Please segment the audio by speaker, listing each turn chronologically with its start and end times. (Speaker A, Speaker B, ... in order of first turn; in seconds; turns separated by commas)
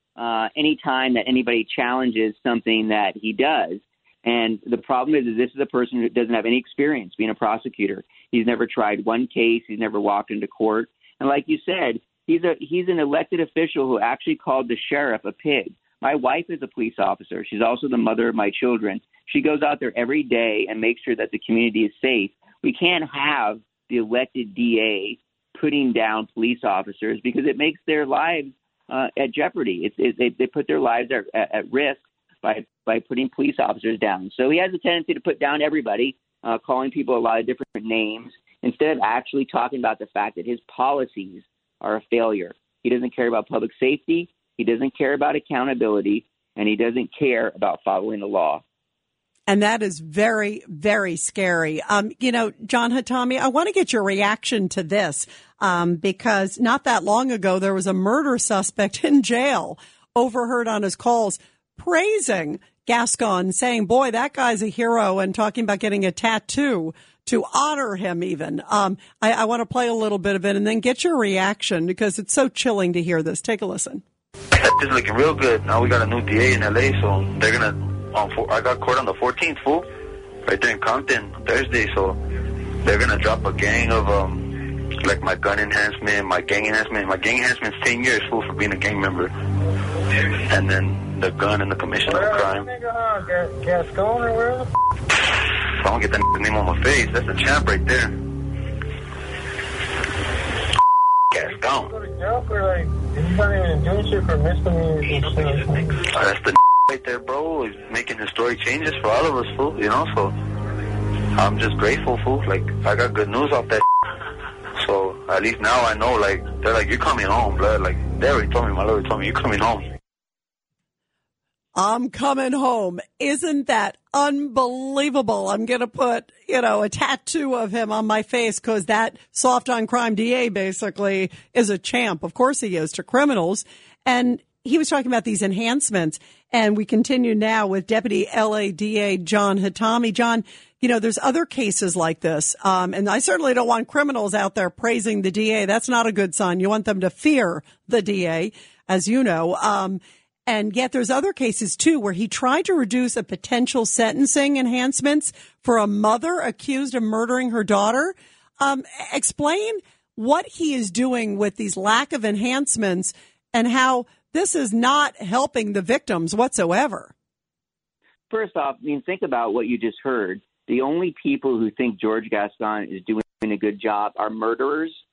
Speaker A: 0.2-48.6, Speaker B: 49.5-74.0, Speaker C: 74.5-79.9, Speaker C: 80.4-82.2, Speaker C: 82.8-89.3, Speaker C: 90.1-92.7, Speaker D: 92.0-94.7, Speaker C: 95.8-98.2, Speaker C: 101.3-101.9, Speaker D: 101.5-106.0, Speaker C: 106.0-110.3, Speaker C: 111.3-113.8, Speaker C: 114.8-119.9, Speaker B: 121.8-167.1, Speaker A: 168.3-175.0